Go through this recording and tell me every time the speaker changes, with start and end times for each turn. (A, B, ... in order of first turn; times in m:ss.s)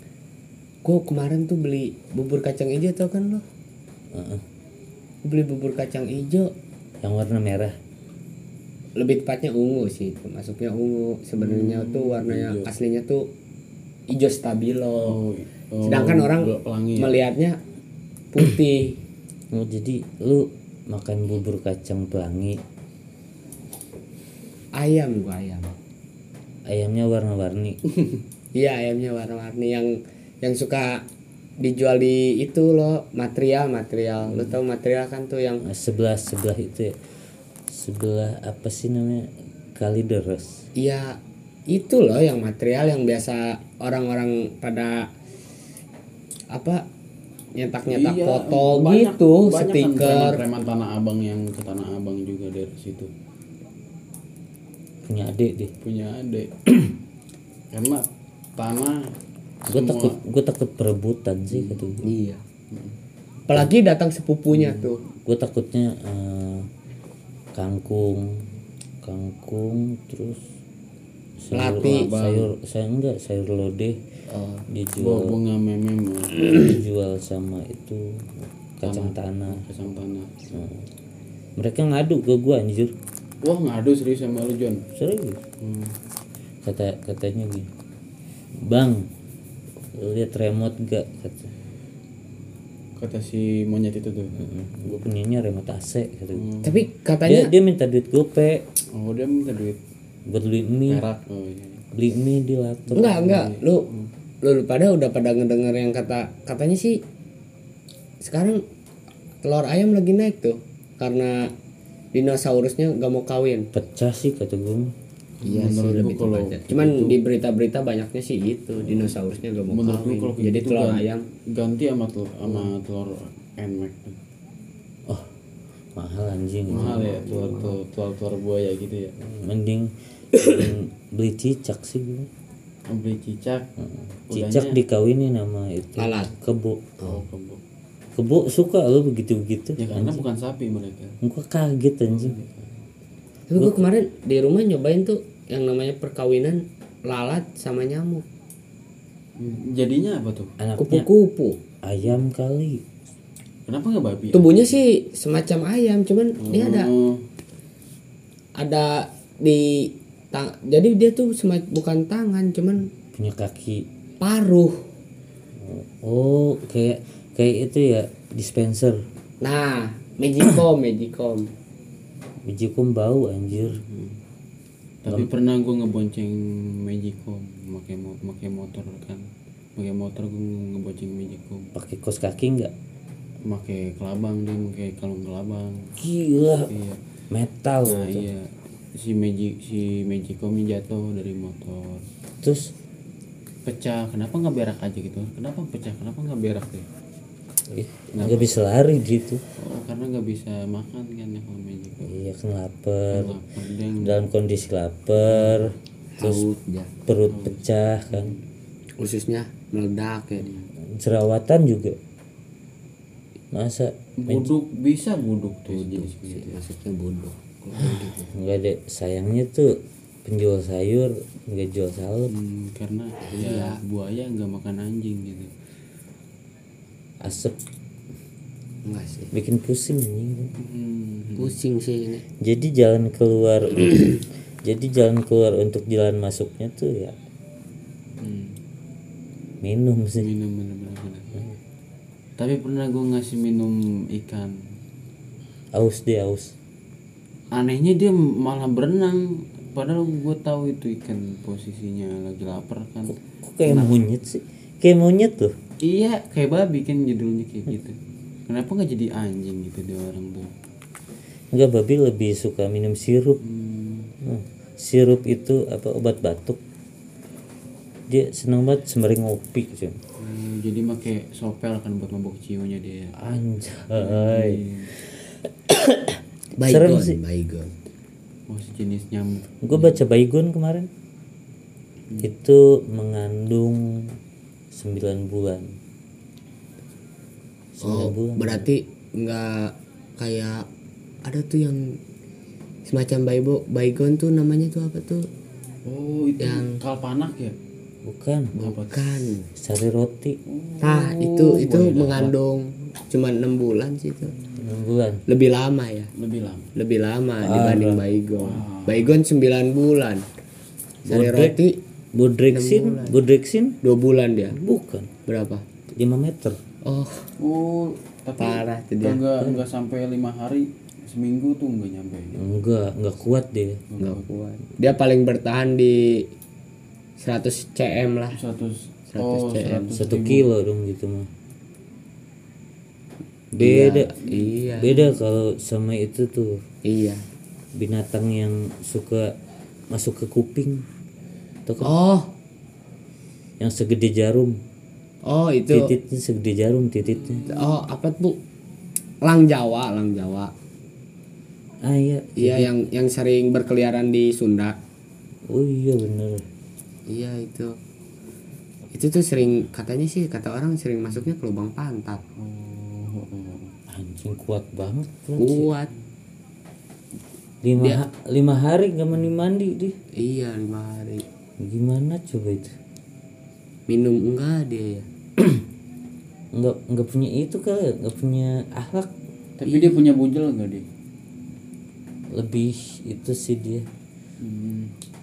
0:00.8-0:03.4 A
0:04.1-0:04.4 B
0:05.2-0:06.5 A
0:07.0-0:07.8 B
0:09.0-0:13.3 A
0:11.4-0:12.7 C
0:14.1-0:15.2 A
0:15.0-0:17.2 C
0:15.8-0:17.6 A
0:18.3-0:19.0 A
0:19.5-0:22.6 B
0:24.8-0:25.7 A
0:26.7-0:27.8 B
0:28.6-0:31.0 A
0:31.6-0:35.6 A
0:35.6-0:37.0 B
0:37.7-0:40.6 B
0:40.8-0:45.1 A
0:46.5-0:46.9 A
0:47.6-0:50.4 A
0:47.9-0:53.1 C
0:55.0-0:55.7 B
0:55.8-0:57.0 C
0:57.7-0:58.0 C
0:58.6-0:59.1 C
0:59.6-1:00.2 C
0:59.7-1:02.0 B
1:01.5-1:02.0 C
1:02.0-1:02.4 A
1:03.5-1:05.0 A
1:04.6-1:04.9 C
1:05.2-1:06.7 B
1:07.6-1:08.4 B
1:09.0-1:10.4 B
1:11.4-1:14.0 B
1:11.5-1:12.4 A
1:11.8-1:12.4 C
1:14.3-1:14.6 A
1:14.7-1:15.4 B
1:15.0-1:16.7 C
1:16.5-1:19.6 B
1:18.8-1:20.3 C
1:20.5-1:20.9 B
1:21.6-1:22.9 B
1:23.4-1:24.8 C
1:24.9-1:25.4 B
1:25.6-1:26.0 C
1:26.6-1:27.7 B
1:28.6-1:29.1 B
1:30.0-1:31.5 B
1:33.0-1:34.4 C
1:34.4-1:36.5 B
1:36.3-1:36.9 C
1:36.6-1:37.5 A
1:37.2-1:38.6 B
1:38.9-1:39.8 C
1:40.3-1:41.1 B
1:40.9-1:41.8 C
1:41.9-1:43.3 B
1:42.9-1:44.1 C
1:42.9-1:43.9 A
1:44.4-1:47.0 A
1:48.2-1:48.6 A
1:49.4-1:51.5 A
1:52.1-1:53.7 A
1:53.7-1:54.9 B
1:55.4-1:57.2 C
1:55.4-2:01.2 A
1:58.8-2:04.2 C
2:06.0-2:07.1 B
2:06.7-2:09.2 C
2:06.7-2:07.8 A
2:09.2-2:12.3 B
2:12.9-2:13.7 C
2:13.8-2:17.0 B
2:14.3-2:14.8 C
2:16.0-2:16.3 A
2:17.0-2:17.6 C
2:18.2-2:20.2 B
2:19.8-2:21.2 C
2:21.2-2:22.4 B
2:22.1-2:22.7 C
2:23.5-2:28.3 A
2:23.6-2:23.8 B
2:29.4-2:30.6 C
2:30.6-2:31.1 B
2:30.8-2:31.6 A
2:31.8-2:32.8 B
2:33.7-2:34.8 C
2:34.3-2:36.9 A
2:36.4-2:37.2 C
2:38.6-2:42.9 A
2:43.1-2:43.9 B
2:44.2-2:44.8 A
2:45.6-2:49.0 B
2:49.4-2:51.5 A
2:52.4-2:53.8 B
2:53.5-2:54.1 C
2:55.0-2:59.2 C
2:59.8-3:01.7 C
3:01.7-3:02.7 B
3:03.4-3:06.0 C
3:06.0-3:06.7 B
3:06.7-3:07.0 C
3:07.3-3:08.3 B
3:07.8-3:12.0 C
3:12.4-3:12.7 B
3:13.6-3:16.9 C
3:17.7-3:19.4 B
3:18.1-3:18.6 C
3:19.6-3:22.1 C
3:22.0-3:23.4 B
3:23.1-3:24.2 C
3:24.0-3:26.4 B
3:25.2-3:25.7 C
3:26.1-3:26.9 A
3:27.1-3:28.4 B
3:27.3-3:28.4 C
3:29.0-3:30.5 A
3:30.4-3:30.7 C
3:31.0-3:32.0 B
3:33.5-3:34.5 B
3:34.2-3:36.6 C
3:35.7-3:38.3 A
3:38.3-3:42.3 B
3:42.3-3:45.5 C
3:43.2-3:43.8 A
3:47.2-3:47.6 B
3:48.8-3:49.3 A
3:49.3-3:50.6 B
3:50.6-3:51.6 C
3:51.4-3:52.2 A
3:52.4-3:57.2 B
3:58.2-3:58.6 C
3:59.6-4:00.3 B
4:00.2-4:01.4 C
4:02.4-4:04.6 C
4:05.7-4:06.6 B
4:07.5-4:14.0 C
4:13.4-4:15.6 B
4:15.8-4:18.0 C
4:18.5-4:20.5 C
4:21.5-4:23.4 B
4:23.4-4:24.2 C
4:24.2-4:26.6 B
4:28.1-4:30.0 B
4:30.2-4:33.2 C
4:33.2-4:37.2 B
4:33.9-4:34.9 C
4:36.6-4:37.7 A
4:38.5-4:40.0 C
4:39.6-4:40.9 B
4:42.2-4:44.2 B
4:44.7-4:45.7 B
4:47.8-4:48.7 B
4:47.8-4:50.7 A
4:51.2-4:52.0 A
4:52.9-4:55.3 A
4:55.9-4:57.6 C
4:56.4-4:56.8 A
4:58.0-4:58.5 B
4:58.5-4:59.5 A
4:58.6-4:59.3 C
4:59.6-5:00.4 B
5:00.5-5:02.3 C
5:00.8-5:04.3 A
5:04.6-5:05.2 B
5:05.3-5:06.1 A
5:06.2-5:06.7 C
5:06.8-5:10.2 A
5:07.4-5:08.0 B
5:08.4-5:09.2 C
5:11.1-5:11.6 B
5:11.1-5:11.8 A
5:12.1-5:13.8 B
5:12.5-5:13.2 A
5:13.8-5:14.6 A
5:14.5-5:15.1 B
5:15.3-5:15.6 A
5:15.9-5:16.6 B
5:16.8-5:17.3 A
5:17.4-5:22.4 C
5:18.4-5:19.6 A
5:22.3-5:23.8 B
5:23.9-5:24.3 C
5:24.0-5:26.3 A
5:27.2-5:28.4 A
5:28.3-5:30.5 C
5:29.1-5:29.9 A
5:30.0-5:31.3 B
5:33.5-5:34.1 B
5:33.6-5:35.2 A
5:34.3-5:34.6 C
5:34.8-5:36.6 B
5:36.8-5:37.2 A
5:37.8-5:39.4 B
5:39.9-5:40.8 B
5:41.7-5:41.9 B
5:41.8-5:42.3 A
5:43.6-5:44.6 B
5:45.3-5:45.9 A
5:45.7-5:47.5 B
5:47.5-5:48.4 A
5:49.2-5:50.5 A
5:51.8-5:52.7 B
5:52.4-5:54.8 A
5:55.5-5:56.4 B
5:57.1-5:57.8 A
5:58.9-6:02.2 A
6:02.4-6:03.7 C
6:03.9-6:05.7 B
6:05.4-6:05.9 A
6:07.6-6:10.0 B
6:07.8-6:08.0 A
6:10.2-6:11.2 A
6:11.6-6:12.8 B
6:13.9-6:15.1 A
6:16.6-6:19.1 B
6:19.6-6:20.8 C
6:22.3-6:23.9 B
6:24.4-6:24.9 C